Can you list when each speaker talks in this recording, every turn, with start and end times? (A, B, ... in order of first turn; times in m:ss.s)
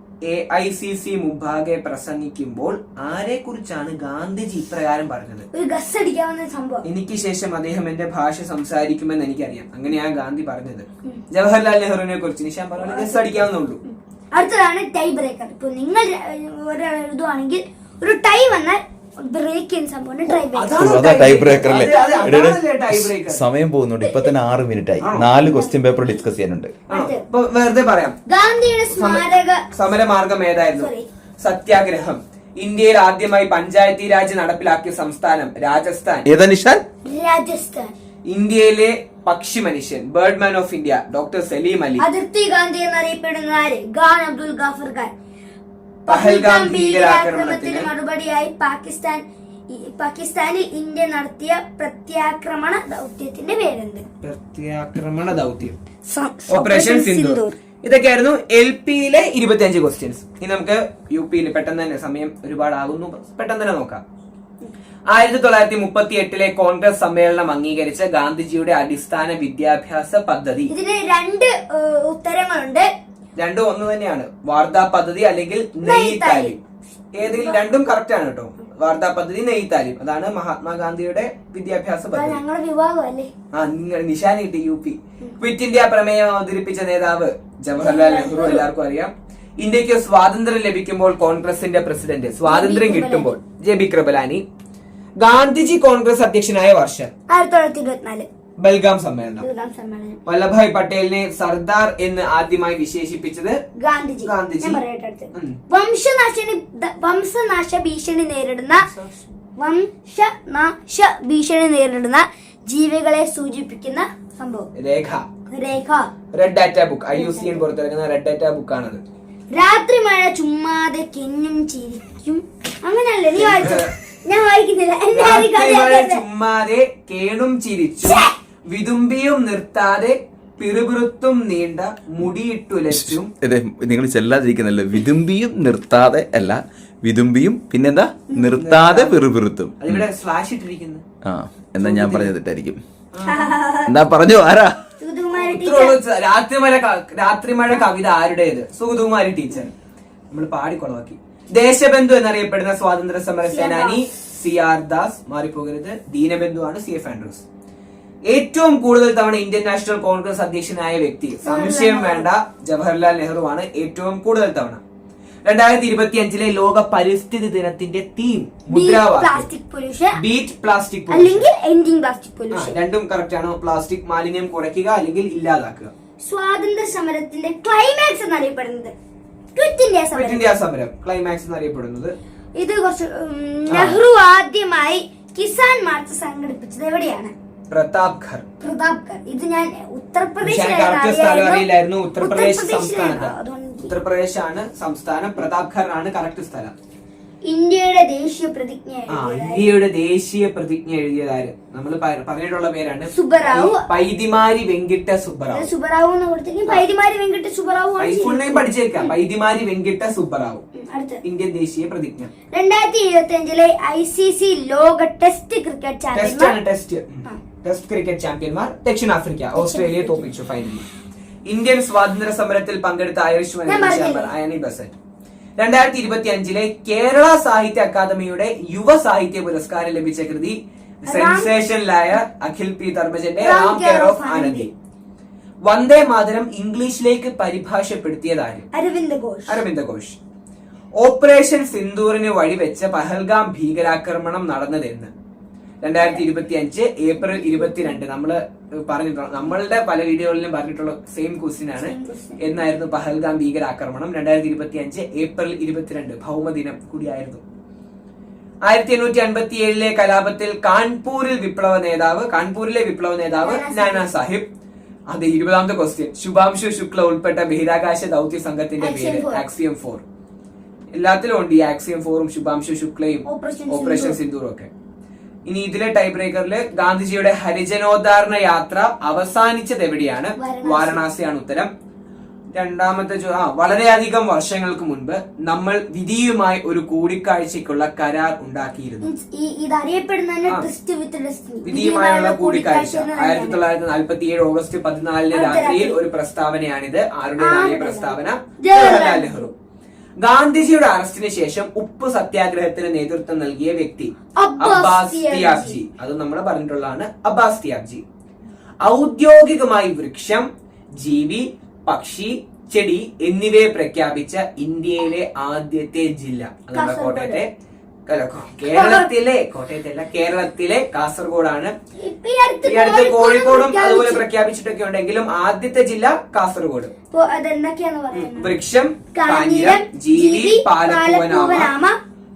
0:00.2-0:05.4 A
0:05.5-0:06.8 B
0:06.8-0:13.8 A
0:12.8-0:22.4 B
0:20.3-0:23.4 A
0:20.7-0:26.7 C
0:24.0-0:24.3 B
0:25.0-0:25.3 A
0:25.4-0:26.2 B
0:26.9-0:28.2 A
0:26.9-0:27.2 B
0:28.3-0:29.6 B
0:28.9-0:36.3 A
0:30.8-0:31.0 B
0:36.2-0:36.8 C
0:37.0-0:37.9 B
0:38.2-0:42.0 A
0:42.0-0:45.1 B
0:46.0-0:54.0 B
0:46.1-0:47.9 A
0:54.2-0:55.8 A
0:56.0-0:57.6 B
0:56.5-1:04.0 A
1:05.1-1:10.7 A
1:10.7-1:12.9 B
1:13.4-1:16.6 A
1:15.8-1:16.6 B
1:17.1-1:22.4 A
1:17.2-1:17.8 B
1:22.1-1:23.3 B
1:23.5-1:34.4 A
1:27.8-1:28.7 B
1:32.4-1:33.4 B
1:35.2-1:37.1 A
1:37.3-1:38.3 B
1:38.6-1:39.4 A
1:39.4-1:40.2 B
1:40.2-1:43.6 A
1:43.8-1:48.9 B
1:44.2-1:44.8 A
1:45.3-1:45.6 A
1:48.8-1:49.2 A
1:49.6-1:54.7 B
1:54.7-1:55.3 A
1:55.5-1:56.1 B
1:56.3-1:59.0 A
1:57.1-1:57.6 B
1:59.5-2:06.2 B
2:03.3-2:03.9 A
2:05.1-2:13.3 A
2:08.0-2:08.3 B
2:12.9-2:20.0 C
2:18.5-2:19.2 A
2:19.8-2:21.0 A
2:21.2-2:22.8 C
2:21.8-2:22.3 A
2:23.1-2:23.5 A
2:23.3-2:23.9 B
2:23.9-2:24.8 C
2:25.0-2:26.0 B
2:25.3-2:29.7 A
2:30.3-2:37.4 A
2:33.4-2:34.0 B
2:38.3-2:44.8 A
2:41.4-2:42.3 B
2:45.4-2:49.5 A
2:48.7-2:50.2 B
2:50.2-2:51.5 A
2:51.1-2:52.7 B
2:52.5-2:55.9 A
2:56.2-2:58.9 B
2:59.6-3:00.5 B
3:00.1-3:02.1 A
3:02.6-3:07.3 B
3:03.7-3:04.0 A
3:07.7-3:08.5 A
3:08.6-3:11.7 B
3:10.4-3:16.7 A
3:12.2-3:13.9 B
3:17.4-3:19.7 B
3:19.1-3:25.7 A
3:23.1-3:23.8 B
3:25.5-3:29.1 B
3:28.0-3:30.6 A
3:30.7-3:31.2 B
3:31.2-3:32.3 A
3:32.5-3:36.6 B
3:36.1-3:40.8 A
3:39.5-3:40.3 B
3:41.4-3:44.9 A
3:43.6-3:44.3 B
3:45.6-3:54.7 A
3:51.1-3:51.5 B
3:53.4-3:54.7 B
3:55.6-3:58.7 A
3:58.7-3:59.6 B
3:59.5-4:00.2 A
4:01.0-4:05.1 A
4:05.8-4:17.4 A
4:06.0-4:06.2 B
4:07.2-4:08.0 B
4:11.8-4:12.5 B
4:18.6-4:24.5 A
4:23.4-4:24.1 B
4:25.1-4:30.0 A
4:28.8-4:29.4 B
4:31.0-4:34.7 A
4:33.2-4:34.2 B
4:35.5-4:41.7 A
4:40.4-4:41.0 B
4:42.5-4:49.1 A
4:49.0-4:53.6 B
4:51.6-4:59.5 A
4:55.3-4:56.0 B
4:57.4-4:59.5 B
5:00.2-5:08.0 A
5:04.4-5:05.8 B
5:08.8-5:17.5 A
5:16.7-5:17.4 B
5:18.1-5:21.7 A
5:18.7-5:19.1 B
5:22.0-5:24.2 B
5:22.6-5:26.9 A
5:27.1-5:28.5 B
5:28.1-5:31.7 A
5:29.1-5:32.0 B